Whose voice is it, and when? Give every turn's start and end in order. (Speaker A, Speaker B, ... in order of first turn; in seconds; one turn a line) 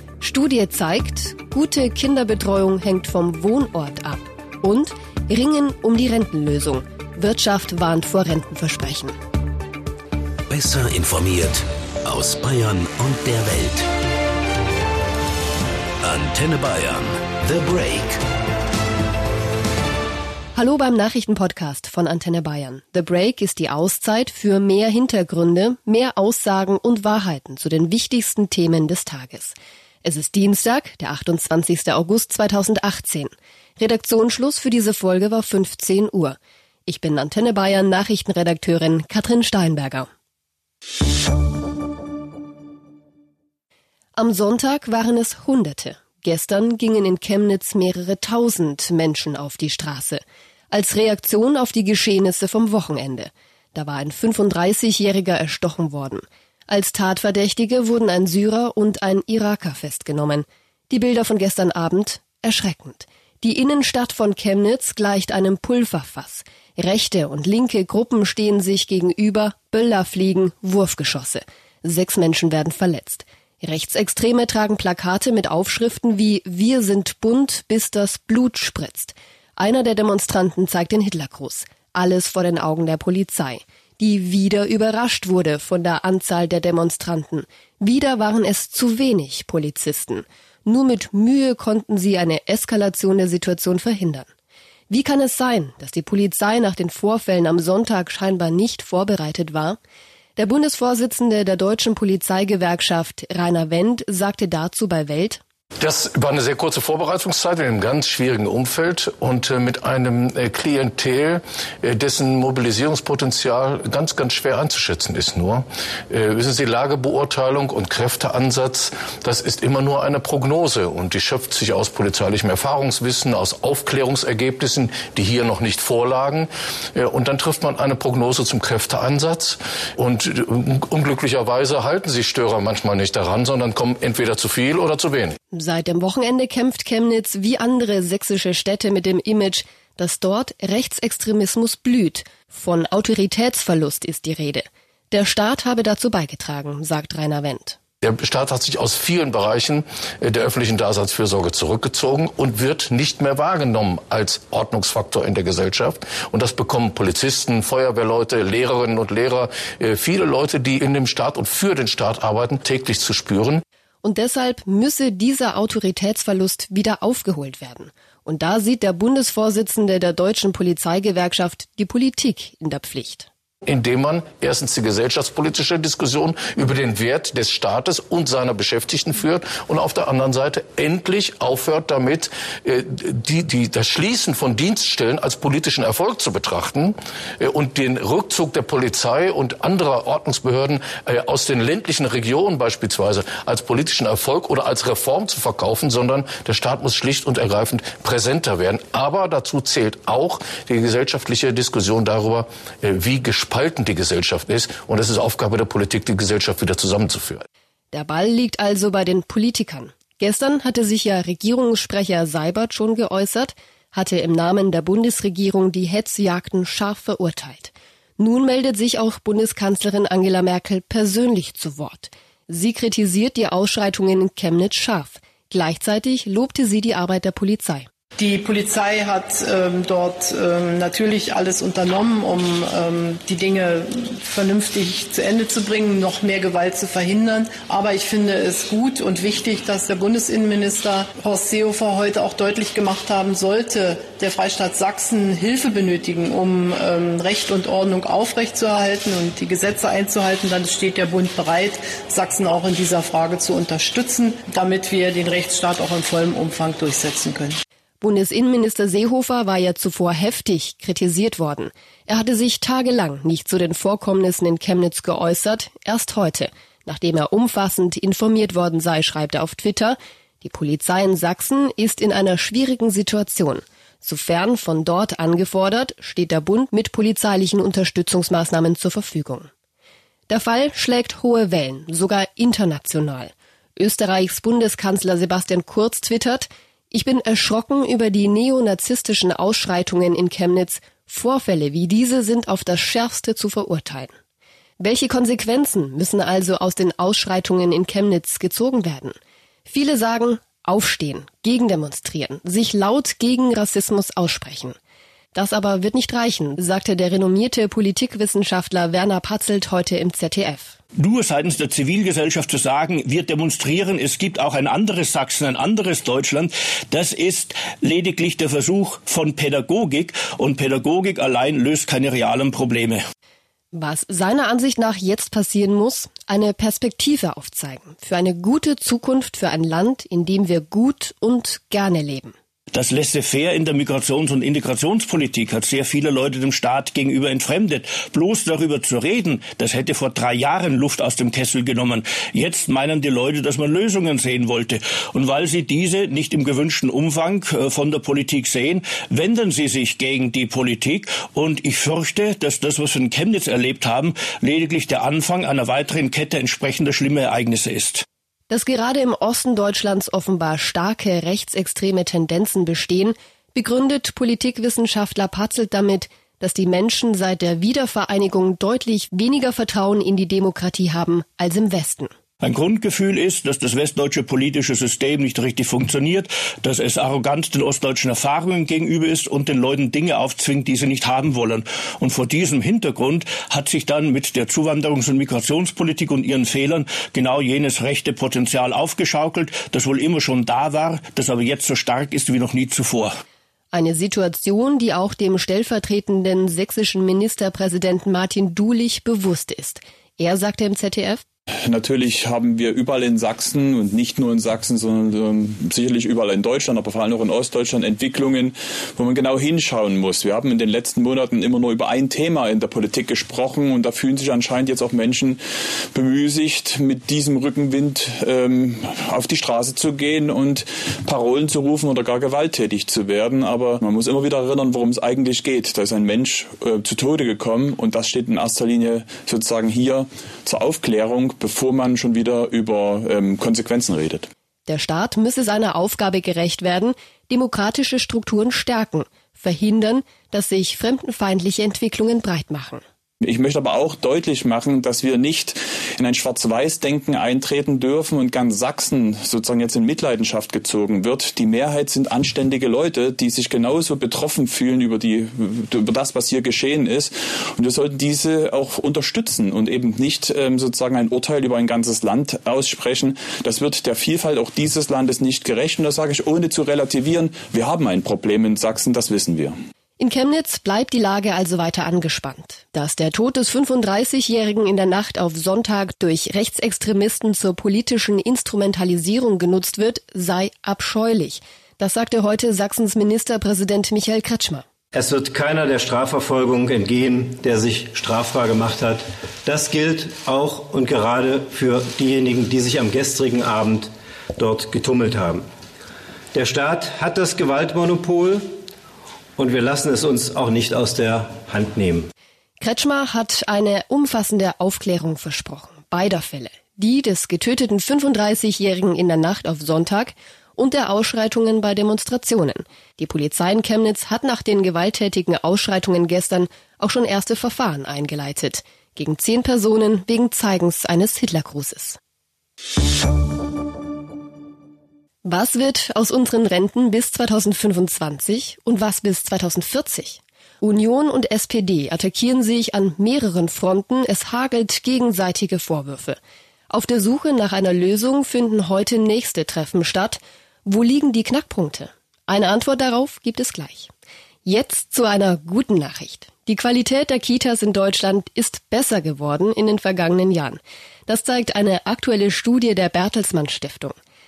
Speaker A: 0.2-9.1
Speaker B: 10.5-13.9
Speaker B: 16.0-18.2
Speaker A: 20.6-40.1
Speaker A: 44.2-94.3
Speaker A: 94.9-99.8
Speaker A: 100.4-105.4
Speaker C: 105.8-135.4
Speaker A: 135.5-147.8
Speaker C: 148.0-163.6
Speaker A: 164.0-173.3
Speaker C: 173.7-207.4
Speaker A: 207.9-227.9
Speaker D: 228.2-257.6
Speaker A: 258.0-279.5
Speaker A: 280.3-294.1
Speaker A: 294.8-304.8
Speaker A: 305.3-310.8
Speaker E: 311.0-323.0
Speaker A: 323.7-332.3
Speaker E: 332.7-358.0
Speaker A: 358.5-372.1
Speaker E: 372.4-393.1
Speaker A: 393.7-401.2
Speaker F: 401.7-415.4
Speaker F: 415.9-434.3
Speaker A: 434.7-442.8
Speaker F: 443.2-469.6
Speaker A: 470.0-484.6
Speaker G: 484.9-495.5
Speaker G: 496.3-498.6
Speaker G: 499.4-502.1
Speaker A: 502.6-522.0
Speaker A: 525.2-536.2
Speaker A: 536.7-543.9
Speaker A: 544.5-554.0